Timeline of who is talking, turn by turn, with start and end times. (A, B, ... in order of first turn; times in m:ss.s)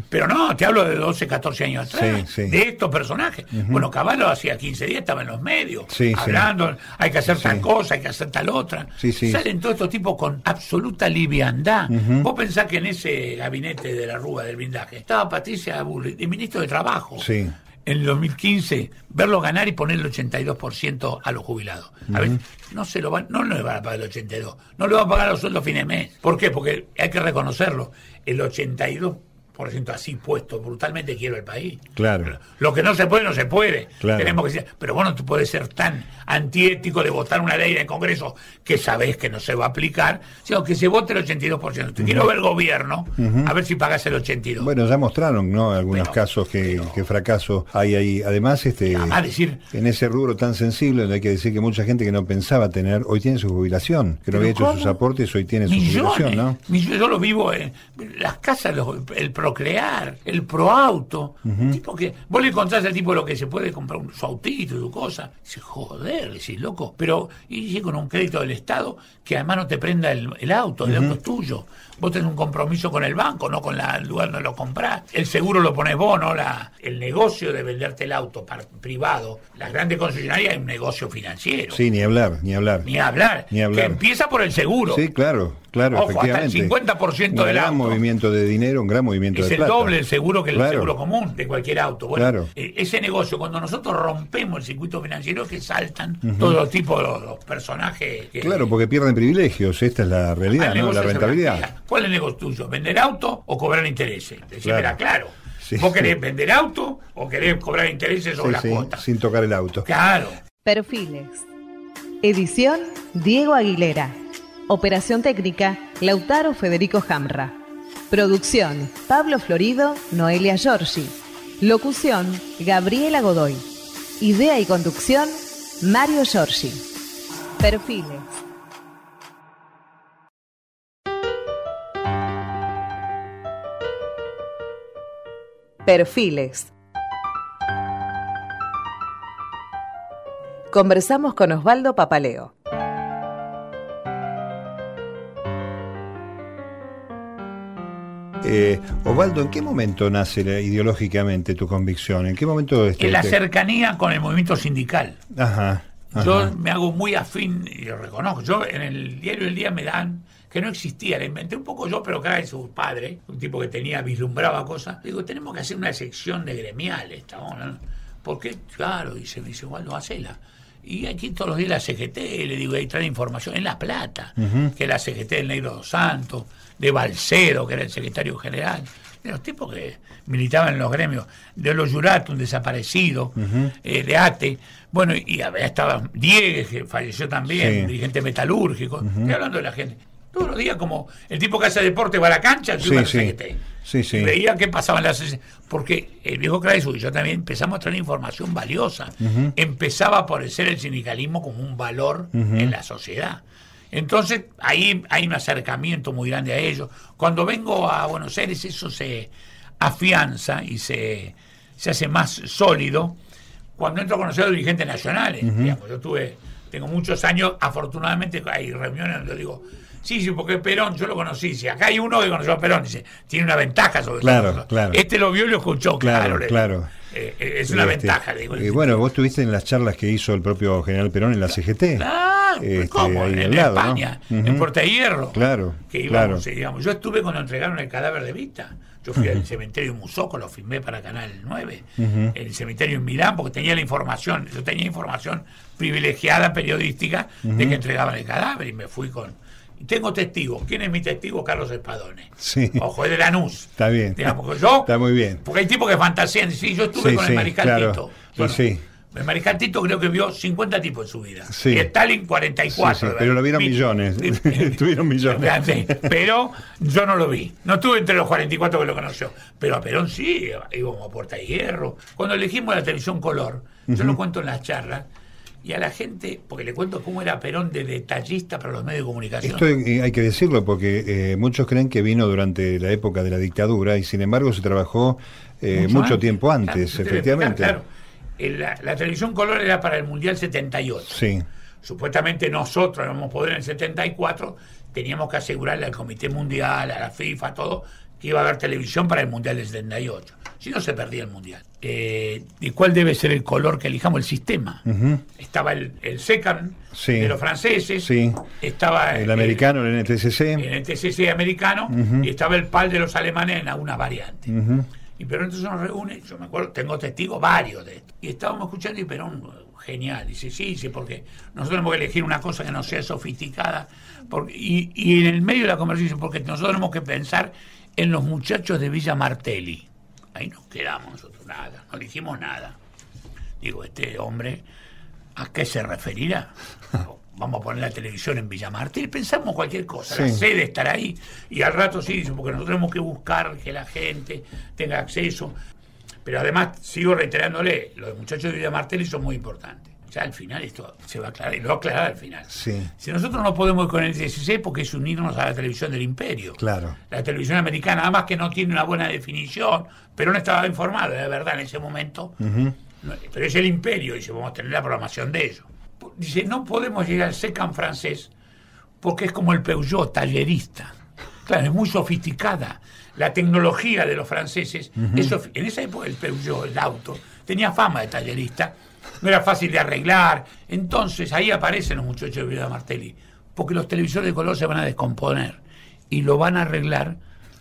0:00.1-0:17.3 A
0:01.9-0:02.6 B
0:03.5-0:03.8 B
0:05.9-0:06.5 B
0:07.3-0:07.7 B
0:09.0-0:09.4 B
0:11.9-0:12.3 B
0:17.2-0:17.5 B
0:17.8-0:44.7 A
0:22.1-0:22.4 B
0:32.0-0:32.4 B
0:34.0-0:34.4 B
0:42.0-0:42.3 B
0:43.2-0:43.5 B
0:44.6-0:56.6 B
0:45.9-0:47.0 A
0:48.8-0:49.6 A
0:54.3-0:55.0 A
0:55.7-1:21.8 A
1:01.5-1:01.8 B
1:10.8-1:11.2 B
1:21.7-1:22.9 B
1:22.8-1:25.0 A
1:23.5-1:24.0 B
1:24.9-1:26.7 B
1:25.9-1:28.0 A
1:27.3-1:30.0 B
1:29.3-1:38.7 A
1:30.5-1:30.9 B
1:32.2-1:32.5 B
1:36.2-1:36.6 B
1:38.4-1:41.7 B
1:40.5-1:49.0 A
1:44.6-1:45.0 B
1:45.6-1:46.1 B
1:48.4-1:49.9 B
1:49.8-1:50.4 A
1:50.7-1:51.5 C
1:52.2-1:54.2 C
1:54.7-1:57.6 C
1:58.1-2:03.6 C
2:04.2-2:06.8 C
2:07.6-2:08.3 C
2:15.9-2:16.7 C
2:20.7-2:22.5 C
2:28.4-2:33.4 B
2:33.0-2:35.2 A
2:35.3-2:36.5 B
2:36.1-3:33.2 A
2:54.4-2:54.7 B
3:03.4-3:03.7 B
3:07.5-3:07.9 B
3:09.0-3:09.3 B
3:12.8-3:14.4 B
3:19.2-3:19.5 B
3:22.4-3:22.7 B
3:33.8-3:49.0 A
3:35.4-3:35.8 B
3:44.2-3:45.0 B
3:46.0-3:46.9 B
3:47.7-3:52.1 B
3:51.9-4:35.1 A
3:52.6-3:54.7 B
3:55.3-3:56.4 B
4:02.0-4:02.3 B
4:07.4-4:07.8 B
4:12.4-4:12.9 B
4:13.8-4:15.4 B
4:17.0-4:18.8 B
4:21.5-4:21.9 B
4:22.7-4:26.1 B
4:33.9-4:34.2 B
4:35.6-4:39.6 A
4:39.4-4:47.8 B
4:45.7-4:47.9 A
4:48.4-4:51.2 A
4:51.1-4:51.4 B
4:51.8-5:09.6 A
5:04.9-5:05.2 B
5:06.9-5:07.4 B
5:08.0-5:08.4 B
5:09.1-5:10.7 B
5:10.6-5:14.6 A
5:11.9-5:12.3 B
5:14.5-5:14.9 B
5:15.2-5:32.8 A
5:33.6-5:34.6 A
5:35.4-5:45.6 A
5:40.1-5:40.4 B
5:46.2-6:02.4 A
5:52.5-5:52.9 B
5:56.6-5:57.0 B
6:02.4-6:02.7 B
6:03.0-6:08.3 A
6:09.0-6:27.2 A
6:15.1-6:15.3 B